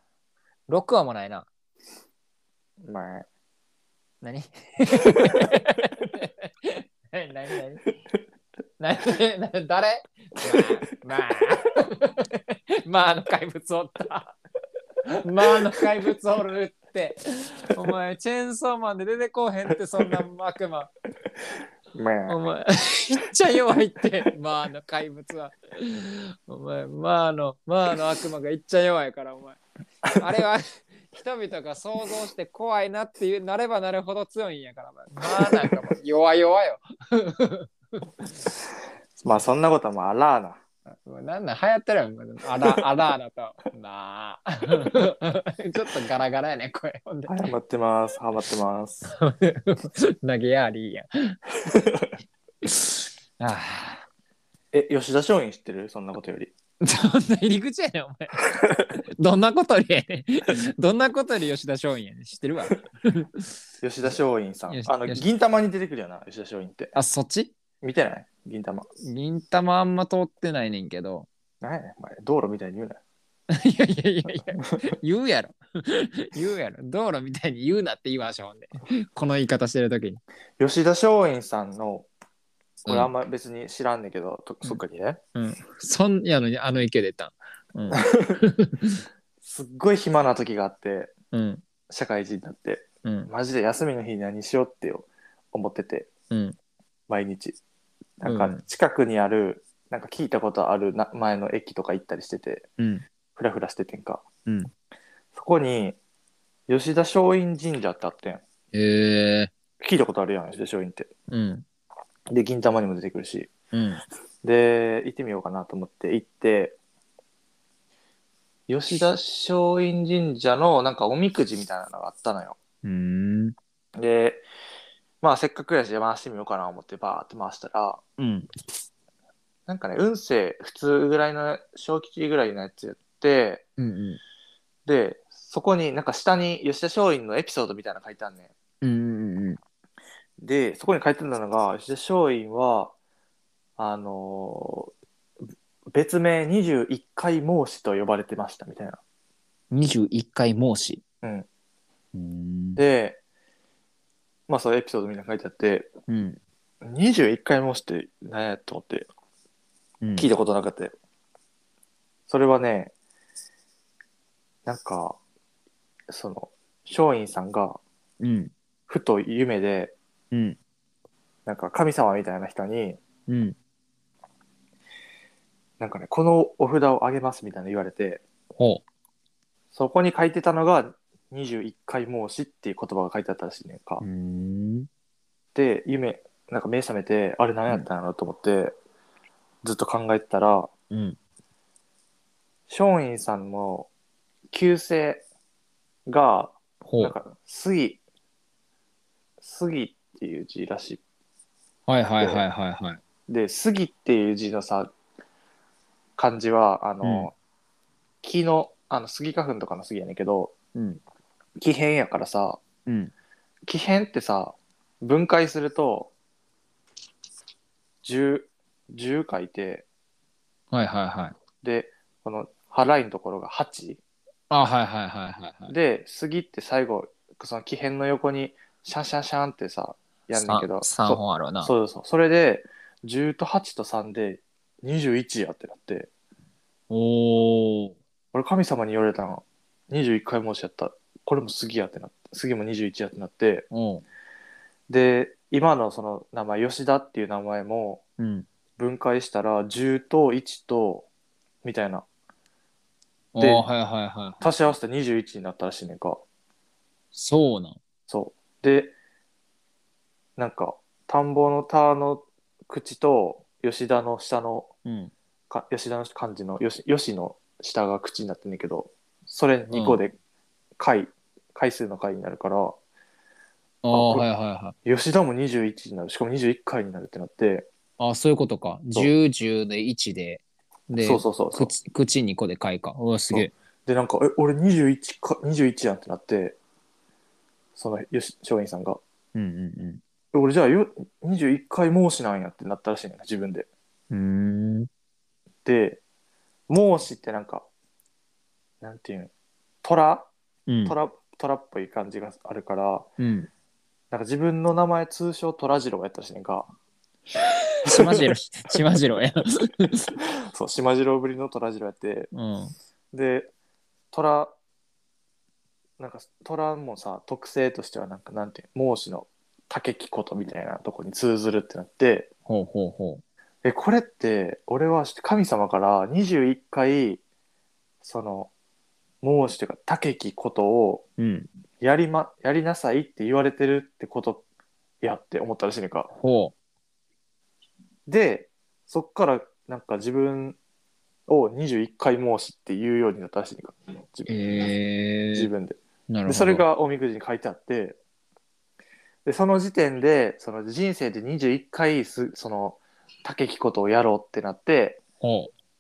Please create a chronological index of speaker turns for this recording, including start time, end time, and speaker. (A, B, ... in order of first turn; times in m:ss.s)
0:00.7-0:01.5 A
0:02.8-0:03.3 B
0:04.2-0:07.8 A
0:08.8-0:14.4 A
0:15.2-0:20.9 A
0:21.9-0:22.4 B
0:22.3-0:29.6 A
0:30.1-0:38.3 A
0:35.3-0:35.8 B
0:39.2-0:40.6 B
0:41.0-0:47.5 A
0:47.3-0:49.1 B
0:49.1-0:51.4 A
0:51.7-0:52.1 B
0:52.6-0:54.0 A
0:54.7-0:56.5 B
0:56.8-0:58.5 A
0:59.2-1:03.5 A
1:03.8-1:06.9 B
1:04.7-1:05.2 A
1:07.0-1:07.6 A
1:07.8-1:08.9 B
1:09.0-1:11.3 A
1:11.6-1:13.0 B
1:13.5-1:20.2 A
1:20.6-1:22.1 B
1:22.8-1:23.1 A
1:22.9-1:25.2 B
1:25.4-1:29.0 A
1:28.0-1:28.4 B
1:29.4-1:31.1 B
1:31.3-1:31.6 A
1:31.9-1:36.1 B
1:33.0-1:33.3 A
1:36.3-1:36.6 A
1:37.1-1:37.6 B
1:38.2-1:42.6 B
1:38.2-1:38.6 A
1:42.8-1:43.0 A
1:43.4-1:44.2 B
1:44.5-1:44.7 A
1:45.4-1:46.0 B
1:46.7-1:48.4 B
1:48.7-1:49.5 A
1:49.8-1:51.1 B
1:51.3-1:51.6 A
1:52.3-1:53.5 B
1:53.7-1:54.0 A
1:54.4-1:56.8 B
1:58.7-2:02.6 B
2:02.8-2:03.6 A
2:04.0-2:04.4 B
2:05.2-2:08.0 B
2:08.2-2:08.5 A
2:09.7-2:13.6 B
2:13.8-2:14.2 A
2:14.9-2:18.5 B
2:18.8-2:19.6 A
2:20.4-2:23.0 B
2:23.8-2:24.9 B
2:25.9-2:29.0 B
2:29.7-2:31.0 A
2:32.1-2:32.8 A
2:32.8-2:33.2 B
2:34.5-2:35.9 B
2:36.1-2:36.4 A
2:36.8-2:39.1 B
2:40.0-2:40.3 A
2:40.2-2:40.9 B
2:42.3-2:42.9 B
2:44.7-2:45.2 B
2:46.1-2:47.8 B
2:48.2-2:48.5 A
2:48.9-2:49.9 B
2:50.3-2:50.6 A
2:51.5-2:53.0 B
2:53.3-2:53.6 A
2:55.8-2:58.2 B
2:58.6-2:58.8 A
2:59.7-3:04.0 B
3:04.0-3:04.9 A
3:05.6-3:08.8 B
3:09.6-3:10.7 B
3:10.9-3:11.2 A
3:12.7-3:13.9 B
3:14.5-3:15.2 B
3:16.1-3:18.0 B
3:16.8-3:17.2 A
3:19.4-3:21.0 B
3:21.9-3:23.0 A
3:22.2-3:22.4 B
3:23.3-3:24.9 B
3:26.2-3:27.3 B
3:27.0-3:27.3 A
3:28.2-3:30.5 B
3:30.8-3:31.0 A
3:31.6-3:32.6 B
3:32.9-3:33.1 A
3:33.7-3:36.1 B
3:38.0-3:39.9 B
3:40.7-3:41.3 A
3:41.6-3:44.0 B
3:44.5-3:45.7 A
3:45.7-3:56.1 B
3:50.3-3:51.7 A
3:56.9-3:58.0 A
3:58.3-4:03.6 B
4:03.7-4:04.0 A
4:04.9-4:08.0 B
4:08.2-4:08.5 A
4:08.8-4:11.1 B
4:11.6-4:12.1 B
4:13.3-4:14.4 A
4:13.4-4:13.7 B
4:14.4-4:16.2 B
4:17.1-4:17.8 A
4:18.1-4:19.0 B
4:20.4-4:24.7 B
4:24.9-4:25.1 A
4:25.5-4:30.2 B
4:29.7-4:30.0 A
4:30.8-4:32.8 B
4:33.8-4:34.8 A
4:33.9-4:34.3 B
4:34.8-4:37.7 B
4:38.0-4:43.5 A
4:41.0-4:41.7 B
4:43.3-4:46.6 B
4:47.8-4:49.0 B
4:49.4-4:50.0 A
4:50.3-4:53.7 B
4:54.1-4:54.9 A
4:55.6-4:56.0 B
4:56.7-4:57.7 B
4:58.8-4:59.3 B
4:59.8-5:00.3 B
5:00.7-5:01.0 A
5:00.9-5:03.1 B
5:03.2-5:03.5 A
5:04.1-5:06.7 B
5:07.9-5:10.1 A
5:07.9-5:08.2 B
5:10.5-5:12.3 B
5:12.3-5:12.7 A
5:13.1-5:13.5 B
5:14.1-5:14.5 B
5:16.0-5:22.3 B
5:22.5-5:23.2 A
5:23.6-5:27.2 B
5:28.0-5:28.5 B
5:29.2-5:31.0 B
5:31.2-5:31.5 A
5:31.8-5:34.4 B
5:35.0-5:36.1 B
5:36.1-5:36.5 A
5:38.1-5:40.6 B
5:41.3-5:44.3 B
5:44.3-5:45.5 A
5:45.4-5:48.0 B
5:46.1-5:46.6 A
5:49.2-5:55.0 B
5:55.2-5:55.5 A